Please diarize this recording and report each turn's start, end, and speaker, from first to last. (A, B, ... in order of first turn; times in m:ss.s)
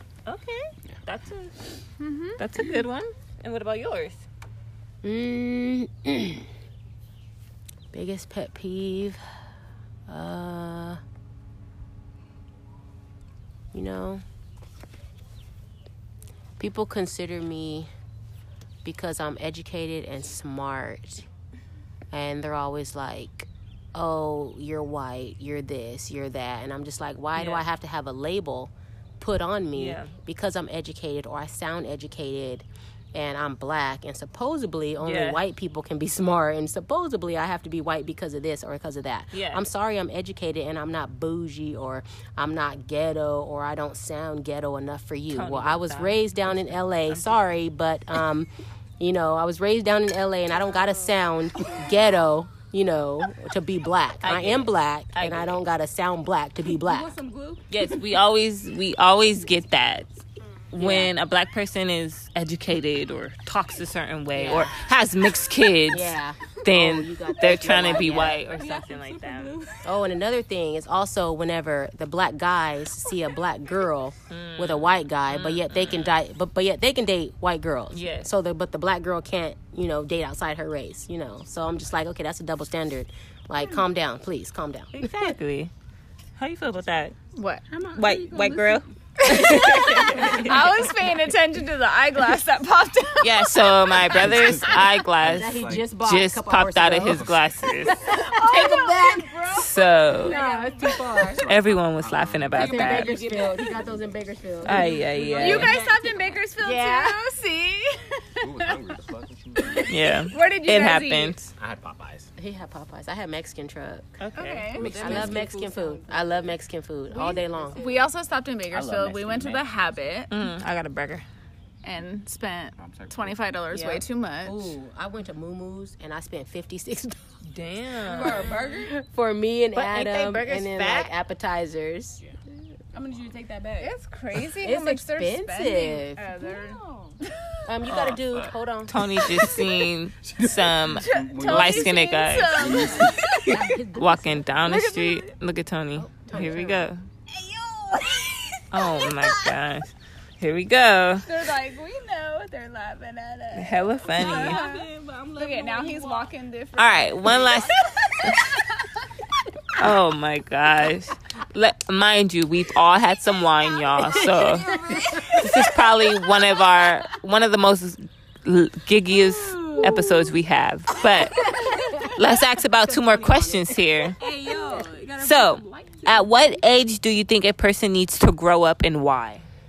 0:00.3-0:01.8 A
0:02.0-0:02.4 B
0:02.4-0:04.2 A
0:05.0-0:06.5 C
0:07.9-0:09.2 C
0:10.1-0:11.0 C
0:13.7-0:14.2 C
0:16.6-0:17.9 C
0:18.8-0:21.3 C
0:22.1-0:57.1 C
0:27.4-0:27.7 A
0:29.8-0:30.2 A
0:35.0-0:35.4 A
0:39.3-0:39.6 A
0:45.3-0:47.4 A
0:54.2-0:55.6 A
0:56.8-0:57.9 D
0:57.7-1:00.2 A
1:00.7-1:09.5 A
1:00.8-1:01.1 C
1:04.3-1:04.7 C
1:05.9-1:08.4 C
1:08.1-1:09.9 D
1:09.8-1:25.3 C
1:14.3-1:16.2 A
1:17.9-1:18.3 A
1:24.9-1:25.7 A
1:26.4-1:27.2 A
1:27.4-1:27.6 B
1:27.7-1:28.9 D
1:27.9-1:30.7 A
1:29.2-1:34.2 B
1:30.0-1:30.5 D
1:33.2-1:38.0 A
1:34.2-1:35.9 E
1:35.2-1:39.6 C
1:38.2-1:41.2 B
1:39.5-1:40.4 A
1:40.1-1:41.5 C
1:41.2-1:43.2 E
1:41.5-1:43.1 A
1:42.5-1:45.7 C
1:42.6-1:43.8 D
1:44.6-1:45.8 A
1:44.6-1:46.4 D
1:45.4-1:48.8 B
1:46.6-1:47.2 C
1:48.4-1:50.0 E
1:49.6-1:51.4 B
1:49.9-1:51.5 A
1:51.6-1:52.3 E
1:52.4-1:54.1 C
1:54.2-1:54.8 A
1:54.4-1:55.0 B
1:54.8-1:55.5 E
1:54.8-1:56.5 D
1:55.0-1:57.8 C
1:57.1-1:58.1 D
1:57.8-2:00.3 B
1:58.7-1:59.8 E
2:00.3-2:01.2 A
2:01.8-2:04.7 B
2:02.8-2:03.4 E
2:03.7-2:07.2 C
2:07.5-2:08.5 A
2:08.0-2:08.9 D
2:08.1-2:12.2 C
2:09.7-2:11.1 A
2:12.9-2:13.9 D
2:13.8-2:16.8 B
2:14.6-2:16.2 C
2:16.4-2:17.2 D
2:17.7-2:19.0 C
2:17.9-2:22.8 A
2:20.2-2:22.0 E
2:20.9-2:23.6 B
2:22.5-2:23.5 E
2:22.7-2:24.8 C
2:22.7-2:23.5 D
2:23.9-2:27.0 A
2:24.7-2:25.3 D
2:26.0-2:26.9 C
2:27.3-2:29.5 D
2:28.7-2:31.3 A
2:31.2-2:38.6 B
2:33.5-2:34.6 A
2:34.1-2:36.3 D
2:36.8-2:38.5 A
2:37.4-2:38.5 D
2:39.7-2:44.7 A
2:44.1-2:45.8 D
2:45.2-2:45.4 C
2:45.4-2:51.6 A
2:49.1-2:50.4 D
2:51.5-2:52.1 D
2:51.7-2:54.1 C
2:52.1-2:54.2 A
2:54.2-2:56.3 D
2:55.2-2:59.5 A